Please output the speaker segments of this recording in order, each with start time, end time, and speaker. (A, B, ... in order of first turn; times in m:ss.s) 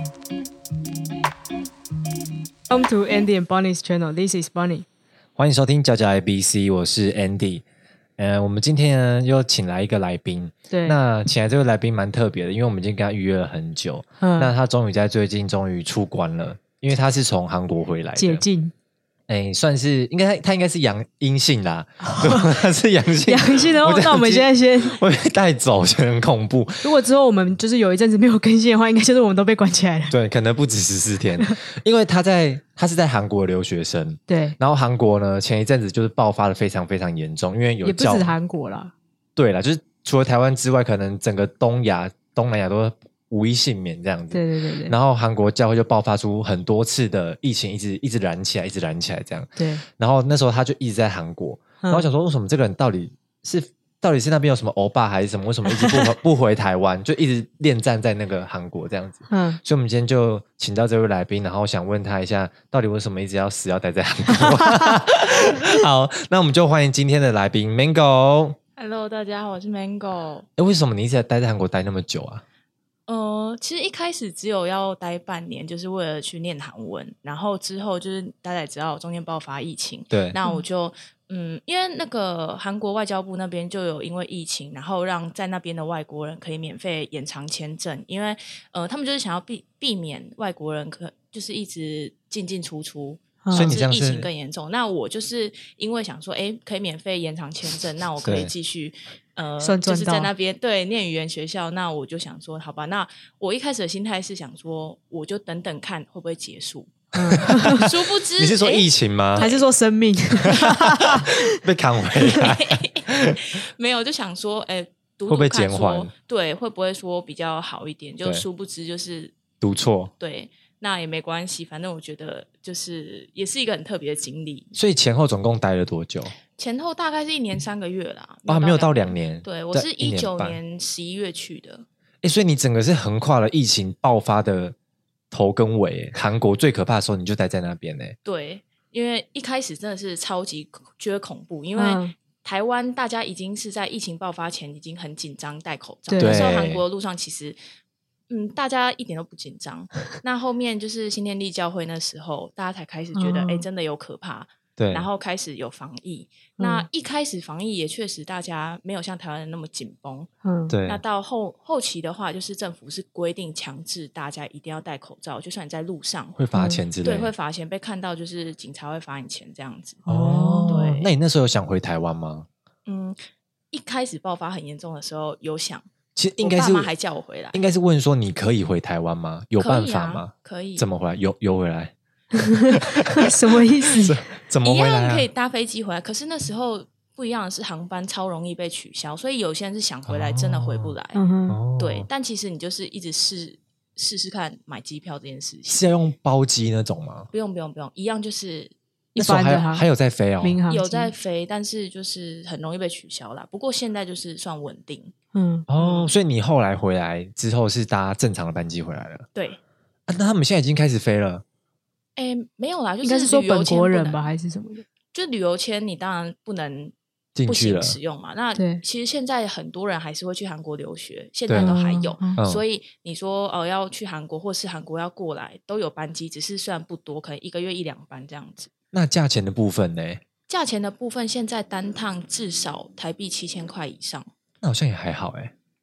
0:02.7-0:04.8 A
0:05.4-0:07.6 B
0:08.2-0:18.4 B
0:10.7-0:11.0 A
0:14.2-0:14.5 A
0:18.2-0:18.7 A
0:19.3-0:26.9 B
0:22.0-0:22.5 A
0:23.3-0:25.0 A
0:26.8-0:30.1 A
0:30.1-0:38.3 B
0:34.3-0:34.6 A
0:37.8-0:38.9 A
0:39.4-1:08.6 B
0:44.3-0:45.0 A
0:49.6-0:49.8 A
0:55.7-0:56.1 A
0:59.3-0:59.6 A
1:04.3-1:04.9 A
1:08.8-1:10.5 C
1:10.6-1:12.4 B
1:13.1-1:47.0 C
1:20.1-1:20.4 B
1:33.4-1:33.8 A
1:33.5-1:34.3 B
1:38.2-1:38.5 B
1:39.6-1:40.3 A
1:47.2-1:47.8 A
1:47.5-1:49.5 B
1:47.5-1:49.6 C
1:49.4-1:51.4 A
1:50.5-1:53.4 B
1:52.3-1:59.4 C
1:55.3-1:56.1 B
1:59.6-2:00.1 B
2:00.2-2:04.7 C
2:04.7-2:06.3 B
2:06.6-2:11.8 C
2:08.5-2:10.6 B
2:12.2-2:14.7 B
2:15.3-2:18.2 B
2:18.2-2:27.6 C
2:21.7-2:22.1 A
2:26.1-2:26.6 A
2:26.2-2:26.8 B
2:28.3-2:40.3 C
2:33.1-2:33.6 A
2:34.8-2:35.1 B
2:36.6-2:36.9 A
2:40.4-2:40.7 A
2:40.7-2:41.0 B
2:40.8-2:46.4 C
2:46.4-2:47.3 B
2:46.5-2:46.8 A
2:47.0-2:50.0 C
2:50.0-2:50.9 A
2:50.1-2:52.5 B
2:50.7-2:51.1 C
2:52.8-2:53.2 C
2:53.7-2:55.8 C
2:56.2-2:56.9 B
2:56.4-2:57.6 C
2:57.5-3:01.9 B
2:59.6-3:00.9 C
3:02.4-3:04.2 A
3:03.0-3:03.4 B
3:03.9-3:05.3 B
3:04.6-3:11.2 C
3:10.1-3:11.0 B
3:11.1-3:11.6 A
3:11.5-3:12.1 B
3:11.8-3:15.9 C
3:15.7-3:17.3 B
3:17.3-3:18.7 C
3:19.1-3:20.6 B
3:19.2-3:19.9 A
3:20.4-3:21.1 A
3:20.7-3:25.1 C
3:25.3-3:25.6 A
3:25.7-3:29.3 B
3:25.7-3:26.1 C
3:29.3-3:29.6 C
3:30.1-3:31.4 B
3:32.2-3:34.3 C
3:33.0-3:34.8 A
3:35.1-3:36.9 C
3:37.3-3:38.0 B
3:37.4-3:48.7 C
3:38.5-3:38.8 A
3:41.5-3:41.7 B
3:41.6-3:42.4 A
3:42.4-3:42.6 B
3:48.9-3:50.2 B
3:50.5-3:54.3 C
3:54.6-3:55.5 B